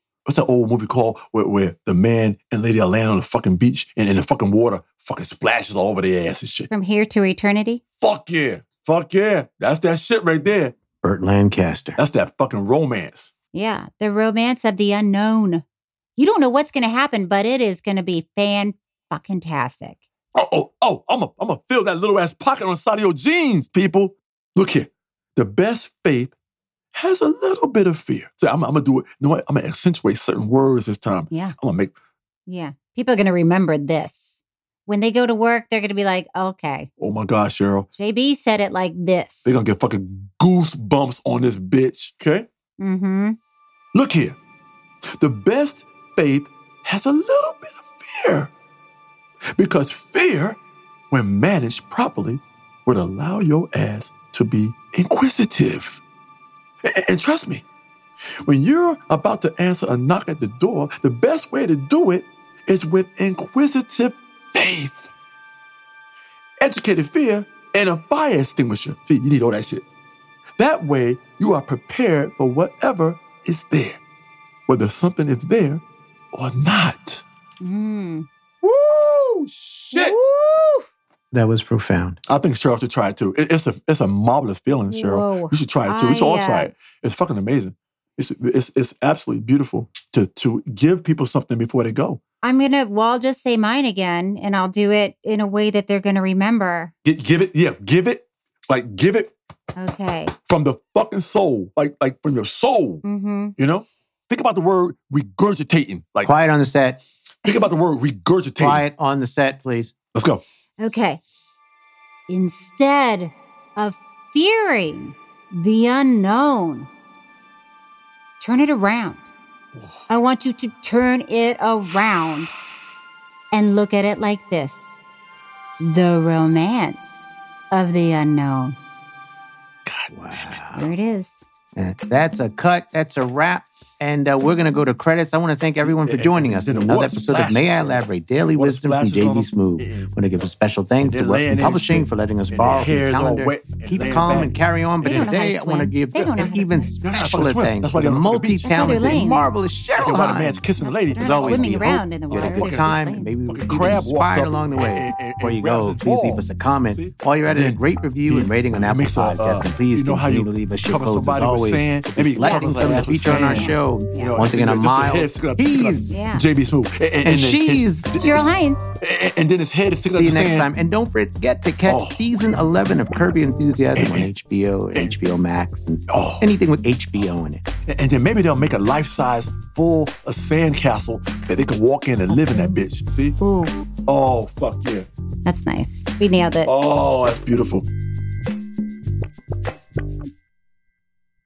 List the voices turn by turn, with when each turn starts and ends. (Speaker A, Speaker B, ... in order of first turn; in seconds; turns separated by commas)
Speaker A: 0.3-6.7, Speaker B: 6.7-7.8, Speaker A: 8.0-10.8, Speaker C: 11.0-12.0, Speaker A: 12.0-13.3, Speaker B: 13.5-15.6, Speaker B: 16.2-20.0, Speaker A: 20.4-26.3, Speaker A: 26.9-31.9, Speaker B: 31.3-31.6, Speaker B: 32.5-36.9, Speaker A: 37.0-37.9, Speaker B: 38.0-39.5, Speaker A: 39.5-42.5, Speaker B: 42.8-43.4, Speaker A: 43.9-44.4, Speaker A: 45.1-48.5, Speaker A: 49.5-50.6, Speaker A: 51.1-56.0, Speaker A: 56.9-57.6, Speaker A: 58.4-65.1, Speaker A: 66.6-69.8, Speaker A: 70.6-74.0, Speaker A: 74.7-77.2, Speaker B: 77.6-78.3, Speaker A: 78.6-80.2, Speaker B: 79.9-80.9, Speaker C: 81.3-82.2, Speaker A: 82.3-92.2, Speaker B: 84.9-86.7, Speaker B: 92.4-96.9, Speaker A: 97.0-99.3, Speaker B: 99.8-100.3, Speaker A: 100.5-103.0, Speaker B: 103.0-103.5, Speaker A: 103.6-106.3, Speaker C: 106.2-107.0, Speaker A: 107.5-108.9, Speaker C: 108.6-109.9, Speaker A: 110.1-110.4, Speaker B: 110.8-111.2, Speaker B: 112.3-116.9, Speaker B: 118.4-119.3, Speaker B: 120.1-122.5, Speaker B: 123.5-125.0, Speaker B: 125.8-128.8, Speaker A: 129.9-130.6, Speaker C: 130.1-130.9, Speaker B: 130.7-131.5, Speaker C: 131.8-150.7, Speaker A: 135.9-137.9, Speaker A: 138.5-140.1, Speaker A: 141.1-144.6, Speaker B: 145.0-147.0, Speaker A: 147.0-149.2, Speaker B: 148.6-149.5, Speaker A: 150.0-152.9, Speaker B: 150.1-153.3, Speaker C: 151.2-166.2, Speaker A: 153.5-168.4, Speaker B: 162.4-164.4, Speaker B: 166.1-166.5, Speaker C: 167.2-168.1, Speaker B: 168.2-168.9, Speaker A: 169.0-170.7, Speaker C: 170.1-177.6, Speaker A: 171.8-172.3, Speaker A: 174.0-174.3, Speaker A: 176.1-176.4, Speaker A: 177.9-183.4, Speaker B: 182.3-182.8, Speaker B: 183.4-183.8, Speaker A: 184.1-185.1, Speaker B: 185.4-186.7, Speaker A: 186.7-187.9